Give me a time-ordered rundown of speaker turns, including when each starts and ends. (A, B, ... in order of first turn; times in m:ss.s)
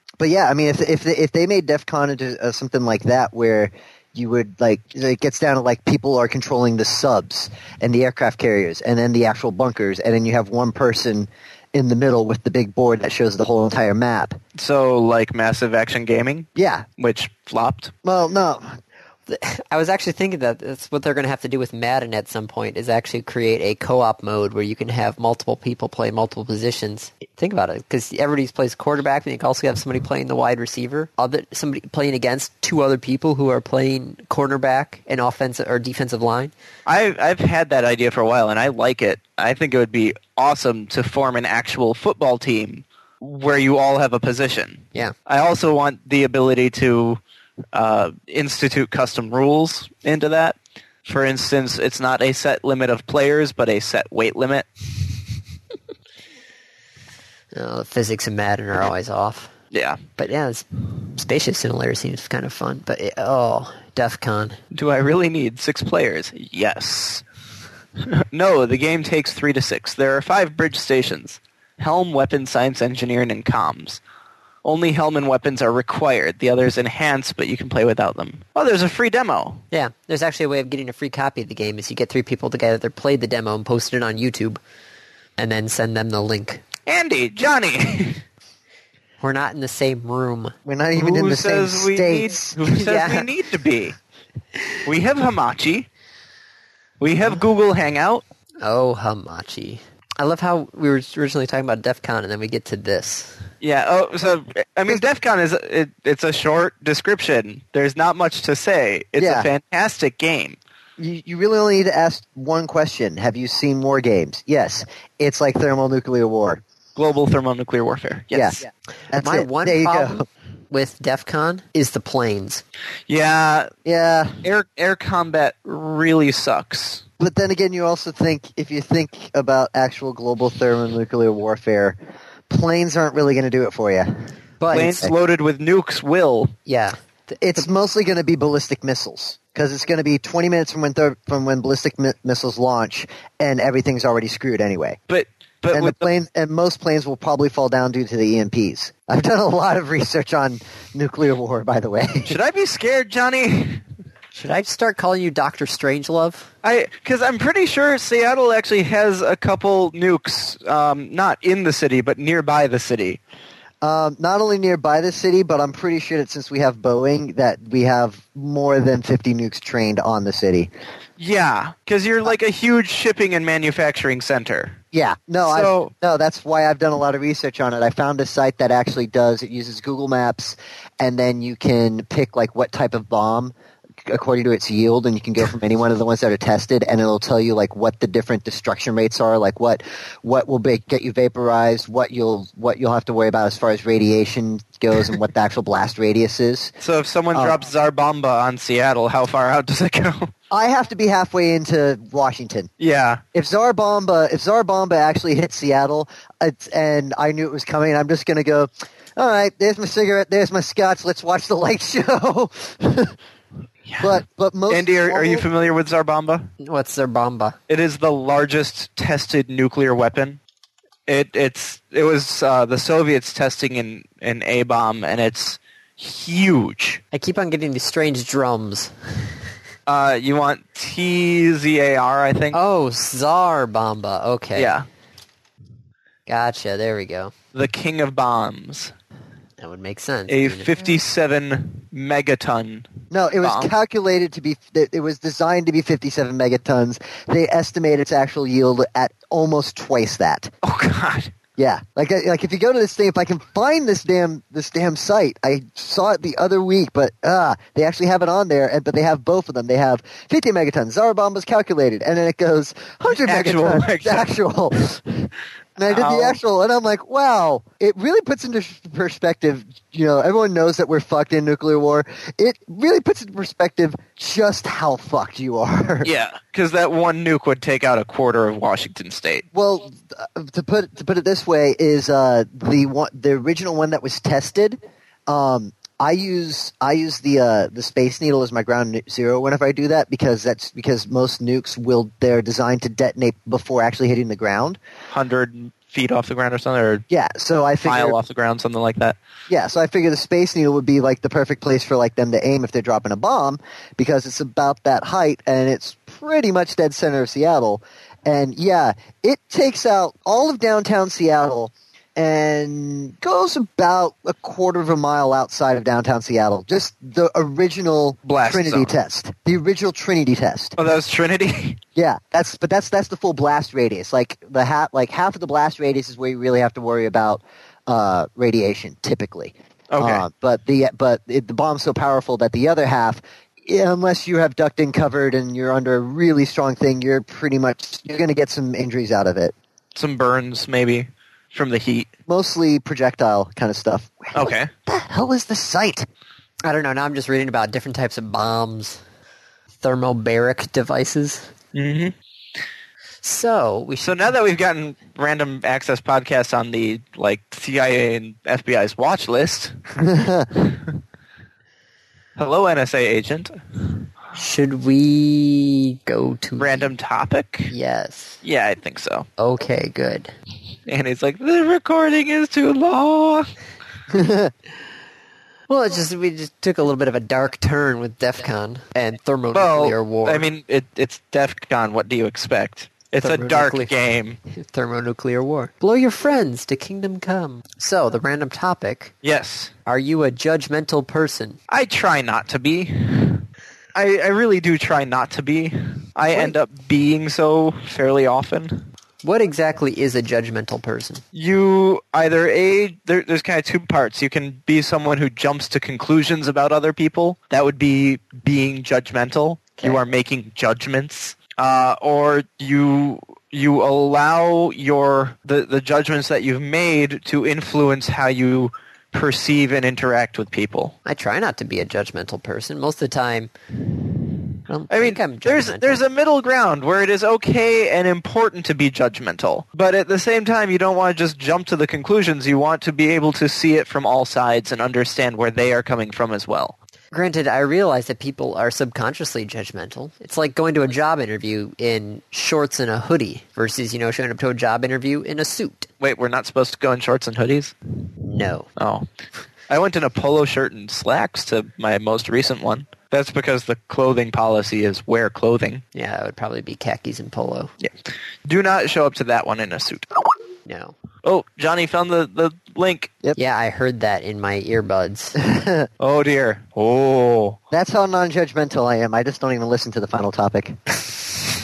0:00.2-0:14.4 A
0:14.6-0:17.9 B
0:16.6-0:16.9 A
0:18.0-0:18.8 A
0:19.3-0:36.5 C
0:36.9-0:47.2 B
0:47.7-0:54.7 B
0:57.5-0:59.5 C
0:59.7-1:00.0 B
1:00.2-1:04.6 C
1:04.7-1:07.2 B
1:08.0-1:14.0 B
1:14.6-1:19.6 B
1:19.7-1:24.6 C
1:25.4-1:26.6 C
1:26.9-1:28.2 B
1:29.2-1:30.6 C
1:30.7-1:32.6 A
1:31.0-1:34.0 B
1:32.7-1:33.3 C
1:34.8-1:35.9 B
1:37.0-1:38.2 B
1:38.6-1:43.4 C
1:43.6-1:50.6 B
1:49.2-1:49.5 A
1:51.0-1:56.6 A
1:57.0-1:58.6 B
1:58.3-2:00.3 A
1:59.2-2:02.6 C
2:03.1-2:03.7 B
2:03.8-2:04.4 A
2:04.4-2:07.0 B
2:07.2-2:12.0 A
2:12.5-2:15.1 A
2:14.6-2:15.0 C
2:14.7-2:16.5 B
2:16.7-2:17.0 C
2:17.4-2:25.0 A
2:25.1-2:26.1 B
2:25.7-2:32.4 A
2:32.3-2:33.8 B
2:34.3-2:36.5 C
2:36.6-2:43.2 B
2:43.8-2:50.7 A
2:51.2-2:54.8 B
2:54.9-3:03.5 A
2:55.4-2:55.9 B
3:04.0-3:16.8 A
3:16.8-3:20.3 B
3:17.3-3:17.6 A
3:20.5-3:22.7 A
3:22.8-3:23.2 B
3:23.3-3:33.2 A
3:33.9-3:36.5 B
3:34.0-3:35.4 A
3:36.6-3:37.6 C
3:37.7-3:40.4 B
3:41.1-3:47.0 B
3:47.1-3:49.3 C
3:49.9-3:52.6 B
3:52.5-3:54.7 C
3:54.6-3:54.8 B
3:56.3-3:57.3 C
3:57.5-3:58.9 B
3:59.6-4:00.9 C
4:00.3-4:02.9 B
4:03.1-4:10.5 A
4:03.4-4:03.7 B
4:10.6-4:11.3 B
4:11.6-4:36.1 A
4:23.1-4:24.3 B
4:25.9-4:26.4 B
4:36.0-4:39.4 B
4:39.5-4:54.8 A
4:55.1-4:57.0 B
4:57.1-4:58.2 A
4:57.8-4:59.2 B
4:59.5-5:20.8 A
5:18.3-5:18.9 B
5:20.8-5:21.8 B
5:22.0-5:39.5 A
5:29.9-5:30.2 B
5:40.0-5:42.1 B
5:42.3-5:46.1 A
5:44.4-5:44.7 B
5:46.6-5:49.0 C
5:49.8-5:51.5 C
5:51.7-5:52.1 B
5:53.2-5:54.2 C
5:54.0-5:59.8 B
6:00.0-6:00.5 A
6:00.5-6:00.9 B
6:02.4-6:03.6 B
6:04.3-6:06.9 C
6:06.6-6:07.7 B
6:07.7-6:08.4 C
6:08.4-6:09.3 B
6:09.4-6:10.3 C
6:10.9-6:13.5 B
6:14.1-6:14.5 A
6:15.7-6:20.5 C
6:19.5-6:24.4 B
6:23.2-6:23.9 C
6:24.5-6:29.1 C
6:29.2-6:29.7 B
6:29.9-6:31.6 C
6:31.7-6:38.9 B
6:39.2-6:41.2 C
6:41.3-7:01.0 B
7:01.1-7:03.5 C
7:04.7-7:06.0 C
7:04.9-7:16.8 B
7:17.1-7:25.9 C
7:26.0-7:27.7 B
7:28.2-7:28.7 C
7:28.8-7:29.1 B
7:29.7-7:35.8 B
7:35.9-7:37.7 C
7:38.5-7:40.1 B
7:40.7-7:41.0 C
7:41.2-7:43.1 B
7:43.4-7:45.4 C
7:45.4-7:45.9 A
7:46.0-7:47.6 B
7:47.7-7:50.8 A